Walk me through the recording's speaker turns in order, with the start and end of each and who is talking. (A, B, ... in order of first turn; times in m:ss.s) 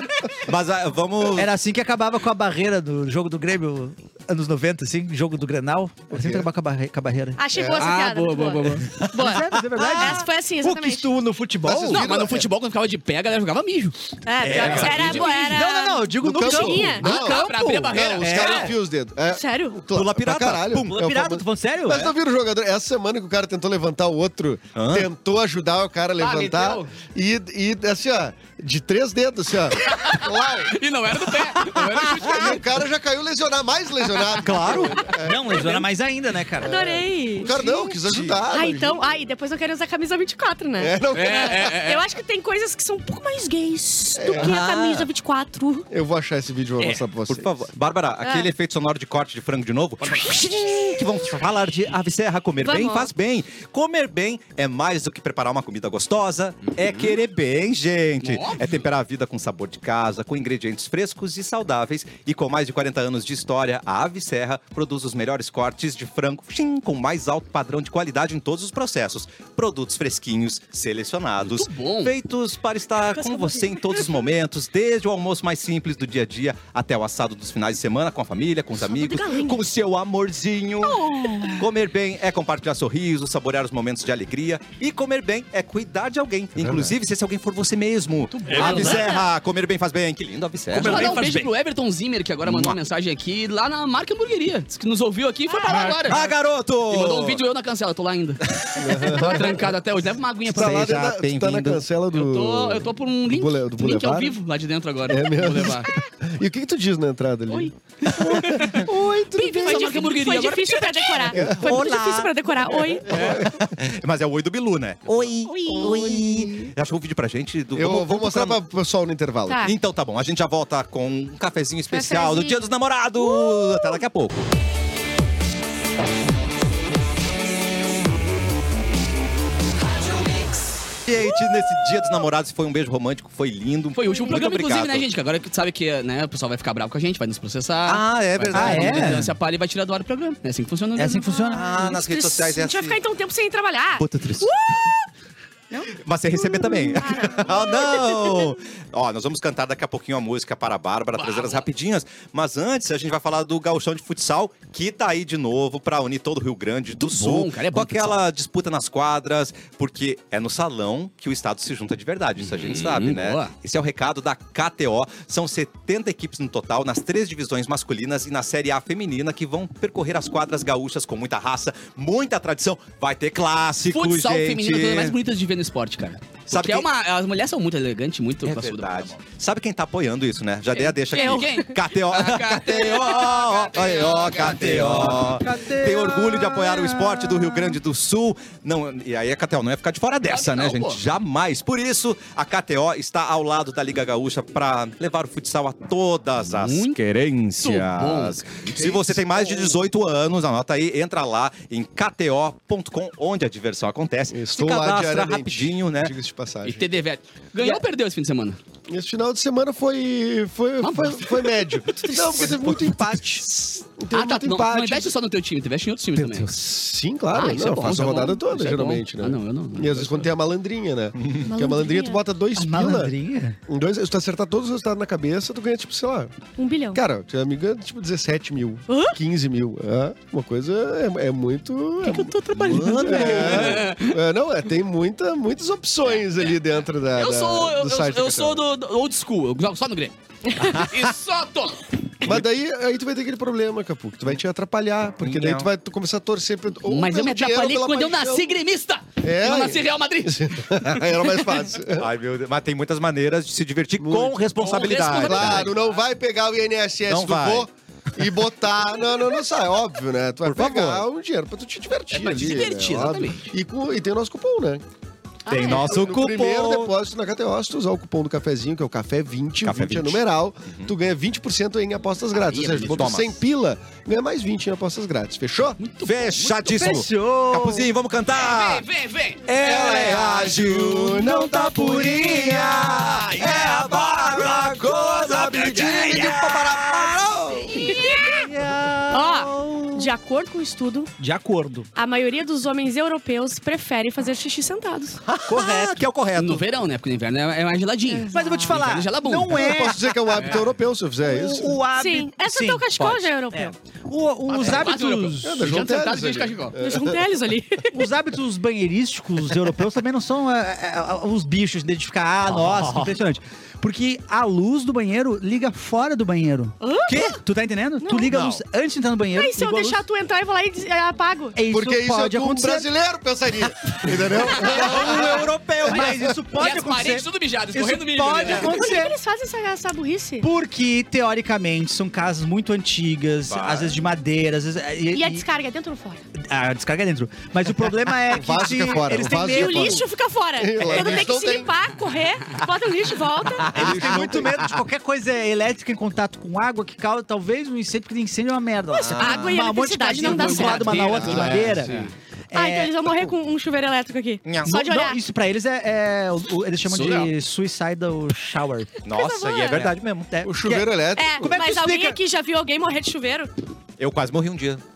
0:00.4-0:01.5 A
0:01.4-0:07.4 B
0:06.1-0:06.4 C
0:07.4-0:11.1 D
0:07.5-0:07.9 C
0:07.8-0:08.9 E
0:09.1-0:12.0 B
0:11.6-0:12.5 C
0:11.9-0:15.6 E
0:14.2-0:17.3 D
0:14.4-0:15.3 A
0:14.6-0:18.8 B
0:16.2-0:30.8 C
0:17.0-0:18.7 E
0:19.3-0:19.8 D
0:19.9-0:20.9 A
0:20.7-0:22.1 B
0:24.7-0:25.1 A
0:26.2-0:26.9 E
0:29.8-0:32.6 E
0:32.2-0:35.8 C
0:34.4-0:35.0 A
0:35.2-0:36.8 B
0:36.6-0:45.8 D
0:36.6-0:39.0 C
0:38.0-0:38.4 A
0:40.8-0:41.8 C
0:41.1-0:42.0 E
0:44.2-0:44.6 C
0:44.3-0:45.1 A
0:45.9-0:47.6 C
0:47.3-1:31.2 A
0:48.2-0:48.5 D
0:50.0-0:50.3 E
0:52.6-0:53.1 D
0:56.8-0:57.1 E
0:58.2-0:58.8 E
1:11.4-1:12.1 E
1:13.1-1:14.1 D
1:18.8-1:19.6 D
1:20.8-1:21.7 D
1:26.6-1:26.9 C
1:28.3-1:29.1 E
1:28.5-1:29.1 B
1:28.5-1:29.3 D
1:30.7-1:31.5 B
1:30.8-1:36.2 E
1:32.4-1:32.8 A
1:35.5-1:36.1 D
1:36.0-1:37.4 A
1:36.9-1:40.9 E
1:38.8-1:39.7 C
1:40.5-1:44.4 C
1:40.5-1:41.8 A
1:42.1-1:45.9 E
1:45.1-1:50.1 C
1:47.6-1:48.9 E
1:49.4-1:53.2 D
1:49.4-1:51.4 E
1:51.3-1:51.8 C
1:51.6-1:52.3 A
1:51.8-1:52.2 B
1:53.0-1:53.6 C
1:53.1-1:53.4 E
1:53.1-1:58.6 A
1:55.4-1:56.2 D
1:55.7-1:56.5 C
1:57.7-1:59.6 C
1:59.5-1:59.7 D
1:59.6-2:04.5 A
2:01.9-2:02.6 D
2:03.2-2:03.9 D
2:11.0-2:15.0 A
2:13.9-2:21.4 E
2:17.8-2:19.3 A
2:18.5-2:19.3 B
2:21.0-2:21.8 B
2:21.4-2:25.0 D
2:21.5-2:23.0 A
2:24.0-2:24.5 A
2:25.7-2:28.5 D
2:25.9-2:55.2 A
2:31.1-2:31.6 E
2:37.0-2:38.2 E
2:42.4-2:43.5 E
2:53.9-2:59.1 E
2:56.5-2:56.9 A
2:58.4-3:26.1 A
3:00.7-3:05.0 E
3:01.1-3:01.7 D
3:04.4-3:07.8 B
3:10.2-3:11.0 E
3:16.5-3:17.0 E
3:17.6-3:19.1 E
3:19.3-3:19.7 C
3:24.3-3:26.9 C
3:26.6-3:28.6 E
3:28.9-3:35.1 C
3:30.8-3:31.8 E
3:32.1-3:32.4 D
3:32.4-3:33.2 A
3:34.1-3:36.6 E
3:36.2-3:36.5 A
3:36.5-3:43.1 C
3:37.3-3:40.3 E
3:41.4-3:42.2 D
3:42.5-3:43.6 B
3:43.7-3:46.4 C
3:46.6-3:47.0 D
3:46.9-3:58.6 C
3:48.9-3:49.2 D
3:52.0-3:53.4 D
3:52.6-3:53.9 A
3:53.1-3:54.2 E
3:57.1-4:01.8 E
4:00.6-4:00.9 A
4:02.2-4:08.6 C
4:05.2-4:05.7 A
4:06.8-4:10.6 E
4:09.2-4:12.1 C
4:11.9-4:15.7 A
4:14.0-4:24.8 C
4:14.6-4:16.0 E
4:17.1-4:17.7 A
4:20.4-4:21.1 A
4:22.1-4:23.5 E
4:25.4-4:26.0 D
4:25.5-4:26.9 A
4:25.6-4:35.8 C
4:29.6-4:30.9 A
4:32.5-4:33.2 E
4:32.9-4:33.4 A
4:35.8-4:36.9 E
4:36.0-4:38.9 A
4:36.6-4:37.9 B
4:38.3-4:39.5 E
4:39.4-4:47.2 A
4:39.6-4:42.2 C
4:41.5-4:46.6 B
4:45.0-4:48.0 C
4:47.8-4:48.5 D
4:47.9-4:49.9 B
4:48.5-4:49.7 A
4:49.1-4:51.1 D
4:51.2-4:51.9 B
4:51.9-4:55.6 D
4:55.2-4:56.6 A
4:55.4-4:56.0 B
4:56.3-4:59.8 E
4:58.1-4:58.8 D
4:58.3-5:00.0 B
4:59.5-5:01.8 C
5:00.3-5:00.7 E
5:01.2-5:05.6 B
5:01.9-5:03.7 D
5:04.5-5:06.7 E
5:05.4-5:07.3 C
5:06.8-5:08.0 D
5:07.9-5:20.0 B
5:12.5-5:13.2 A
5:16.8-5:17.4 D
5:18.0-5:18.3 D
5:18.3-5:18.6 A
5:19.3-5:21.6 D
5:21.6-5:22.9 B
5:21.7-5:26.1 C
5:24.2-5:29.1 B
5:25.1-5:26.0 A
5:25.9-5:28.8 E
5:28.6-5:30.5 D
5:30.4-5:35.4 B
5:33.5-5:34.0 A
5:35.1-5:36.2 D
5:36.3-5:40.0 B
5:38.3-5:41.7 C
5:39.4-5:43.8 D
5:43.6-5:44.7 A
5:43.7-5:44.5 C
5:43.7-5:52.0 B
5:48.9-5:51.3 D
5:49.0-5:49.5 A
5:50.2-5:52.1 E
5:51.0-5:52.0 C
5:52.5-5:53.3 B
5:52.5-5:55.2 D
5:54.4-5:54.7 A
5:54.6-5:58.9 B
5:56.9-5:57.3 E
5:59.0-6:00.3 A
5:59.1-5:59.9 D
5:59.7-6:02.2 B
6:00.4-6:01.6 C
6:01.2-6:03.5 D
6:04.0-6:04.8 A